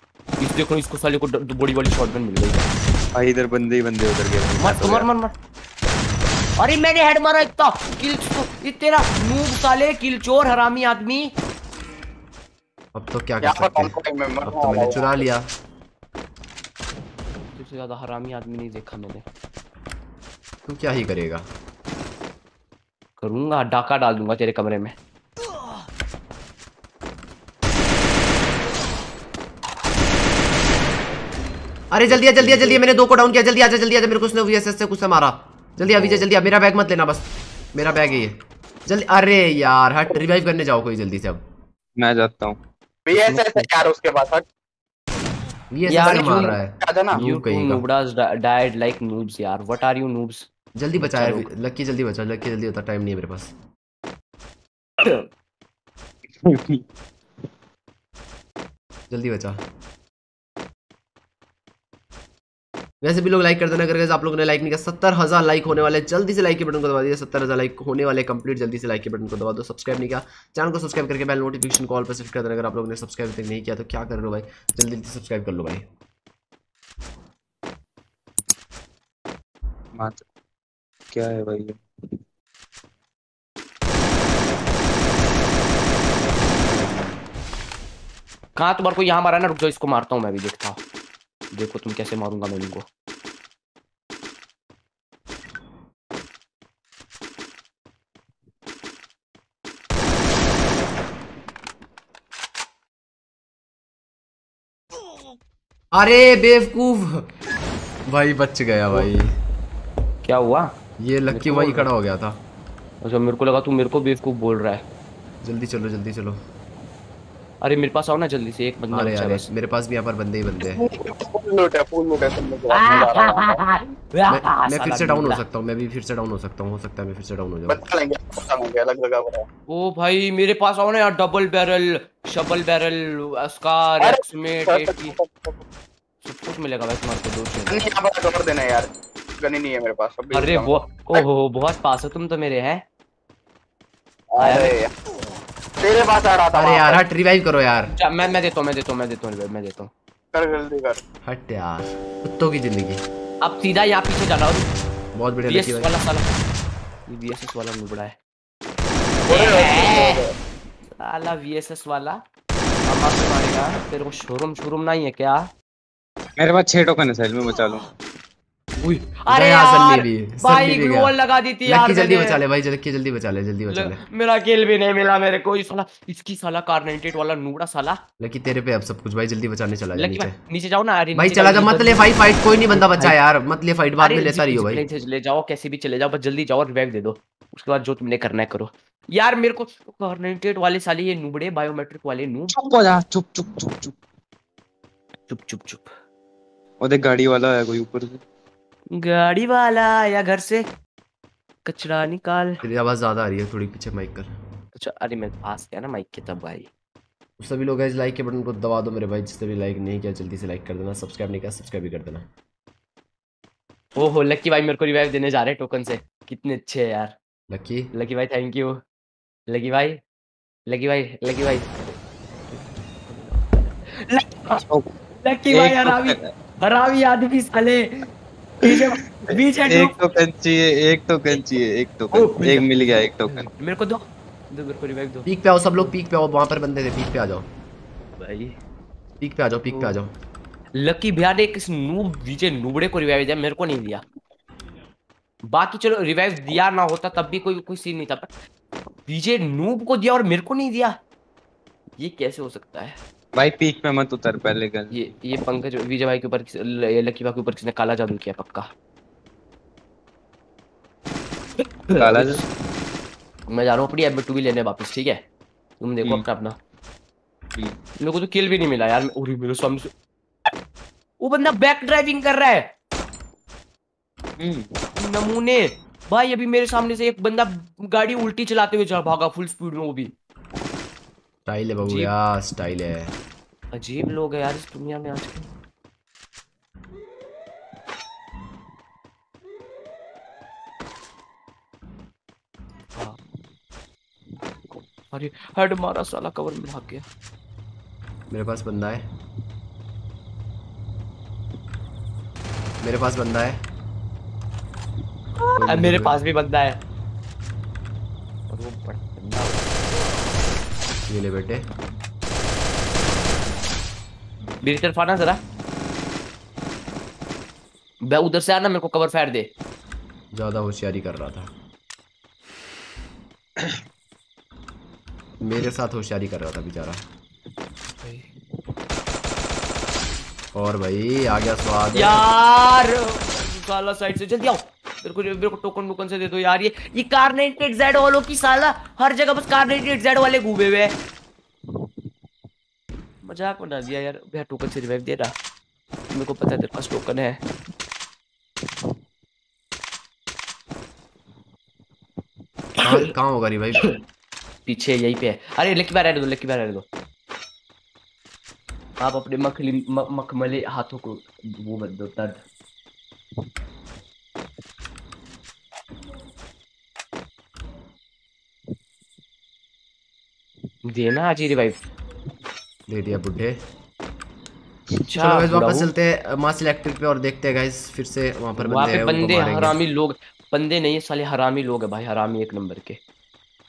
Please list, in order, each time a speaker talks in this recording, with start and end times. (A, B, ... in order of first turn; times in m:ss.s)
0:00.4-0:02.7 A
0:03.1-0:05.1 B
0:04.6-0:05.3 A
0:06.6-0:11.3 A
0:12.9-0:13.9 C
0:13.4-0:15.2 D
0:14.4-0:15.4 C
0:17.5-0:19.2 A
0:20.6-0:21.4 C
0:23.2-0:24.9 A
0:31.9-0:41.4 C
0:32.1-0:32.8 B
0:42.0-0:42.6 B
0:43.0-0:44.4 D
0:43.2-0:43.7 A
0:45.7-0:47.8 C
0:45.9-0:46.6 A
0:46.8-0:47.1 D
0:47.1-0:51.5 A
0:50.8-0:53.5 C
0:55.0-0:55.3 A
0:56.4-0:56.8 B
0:59.1-0:59.6 C
1:03.0-1:15.8 C
1:19.9-1:20.2 B
1:21.1-1:21.8 B
1:28.6-1:30.8 A
1:31.5-1:32.8 A
1:45.9-1:47.2 C
1:48.1-1:49.3 C
1:50.2-1:50.7 A
1:51.0-1:52.3 C
1:51.3-1:51.9 A
1:53.0-1:54.8 A
1:55.4-1:56.4 C
1:57.6-1:59.5 A
1:58.9-2:00.8 C
2:00.7-2:03.6 D
2:02.7-2:05.4 A
2:04.3-2:07.8 C
2:07.7-2:09.4 D
2:09.7-2:15.2 A
2:14.0-2:15.6 D
2:16.2-2:17.8 A
2:17.7-2:21.2 D
2:20.3-2:22.8 A
2:24.3-2:24.9 D
2:24.4-2:24.7 A
2:25.8-2:27.0 D
2:26.5-2:27.9 C
2:27.9-2:29.9 A
2:30.3-2:31.0 D
2:31.2-2:33.0 C
2:33.4-2:34.7 A
2:35.1-2:35.9 C
2:35.4-2:36.3 A
2:37.1-2:38.2 A
2:39.3-2:40.2 A
2:39.3-2:40.3 D
2:41.0-2:42.2 A
2:42.9-2:45.5 A
2:46.4-2:47.9 B
2:48.8-2:52.4 A
2:49.3-2:51.1 C
2:51.6-2:54.0 C
2:53.7-2:58.0 A
2:58.2-3:00.4 C
2:59.9-3:03.2 A
3:01.1-3:04.8 C
3:04.0-3:12.5 A
3:12.5-3:13.9 B
3:15.3-3:15.9 A
3:16.8-3:18.2 B
3:18.9-3:20.6 A
3:21.6-3:22.6 A
3:22.6-3:24.3 C
3:24.8-3:26.7 A
3:27.4-3:32.2 C
3:34.0-3:37.1 A
3:37.5-3:37.9 C
3:37.9-3:38.8 A
3:39.5-3:40.0 A
3:40.7-3:44.6 A
3:45.2-3:50.0 A
3:45.5-3:46.3 B
3:49.7-3:53.5 B
3:52.1-3:55.3 A
3:55.2-3:57.4 C
3:58.2-3:58.6 A
3:59.2-4:00.1 C
3:59.7-4:00.0 A
4:00.7-4:04.0 A
4:05.5-4:08.3 A
4:09.1-4:11.0 A
4:12.0-4:13.0 A
4:13.3-4:15.0 B
4:14.9-4:18.7 A
4:21.6-4:22.4 A
4:22.0-4:22.4 B
4:23.5-4:25.2 A
4:25.8-4:26.6 A
4:28.0-4:29.9 A
4:31.2-4:32.7 A
4:34.4-4:34.7 B
4:35.0-4:40.1 A
4:41.4-4:43.1 C
4:41.8-4:42.1 A
4:43.7-4:45.5 A
4:54.7-4:57.0 A
4:58.3-4:59.0 C
5:02.8-5:03.6 C
5:05.4-5:06.8 A
5:05.5-5:06.2 C
5:08.5-5:09.8 A
5:11.1-5:11.6 C
5:14.6-5:15.4 A
5:18.0-5:19.5 A
5:20.3-5:21.5 C
5:25.4-5:27.0 C
5:28.0-5:28.3 A
5:30.5-5:32.2 C
5:31.9-5:40.9 A
5:43.2-5:45.3 A
5:46.1-5:47.4 A
5:52.8-5:53.9 C
5:54.6-5:56.8 A
5:59.0-6:02.4 A
6:10.8-6:11.7 A
6:12.9-6:13.6 C
6:15.0-6:15.9 A
6:15.2-6:19.8 C
6:18.6-6:23.0 A